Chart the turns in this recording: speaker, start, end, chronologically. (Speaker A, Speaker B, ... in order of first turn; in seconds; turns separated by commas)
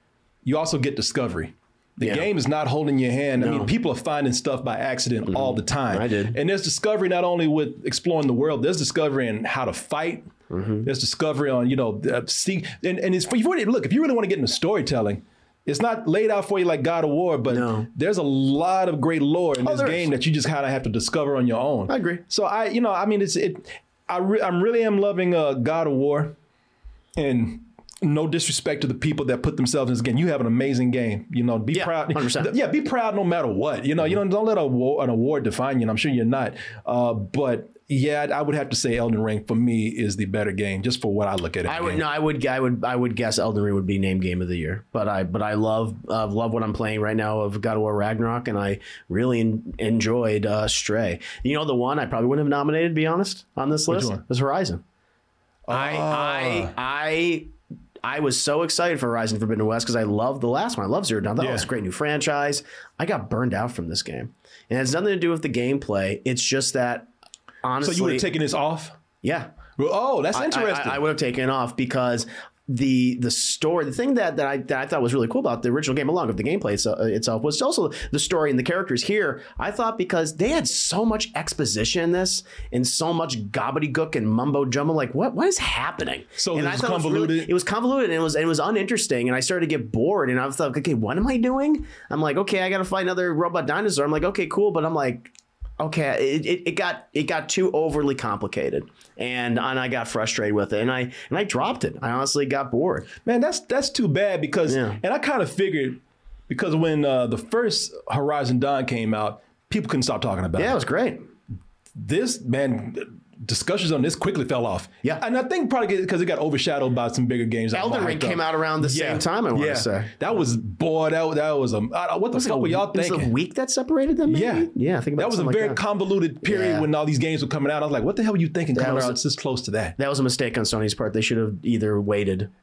Speaker A: 0.4-10.3, Speaker B: 2.0-2.3, Speaker B: 3.4-3.7, Speaker B: 5.3-6.4, Speaker B: 10.5-10.9, Speaker A: 10.8-26.3, Speaker B: 17.5-17.9, Speaker B: 19.6-20.1, Speaker B: 21.9-22.2, Speaker A: 27.1-42.0, Speaker B: 31.7-32.5, Speaker B: 41.6-54.8, Speaker A: 53.9-54.2, Speaker A: 55.7-56.7, Speaker B: 55.7-57.5, Speaker B: 58.0-67.1, Speaker A: 61.4-61.7, Speaker B: 67.6-68.3, Speaker A: 67.8-69.0, Speaker B: 69.2-69.5, Speaker A: 69.8-71.0, Speaker B: 70.3-103.1, Speaker A: 86.4-87.5, Speaker A: 103.2-110.8, Speaker B: 104.7-105.0, Speaker B: 110.5-111.3, Speaker A: 111.9-123.3, Speaker B: 117.7-120.1, Speaker B: 122.3-125.8, Speaker A: 124.3-129.9, Speaker B: 126.4-126.9, Speaker B: 128.7-129.2, Speaker B: 130.0-132.5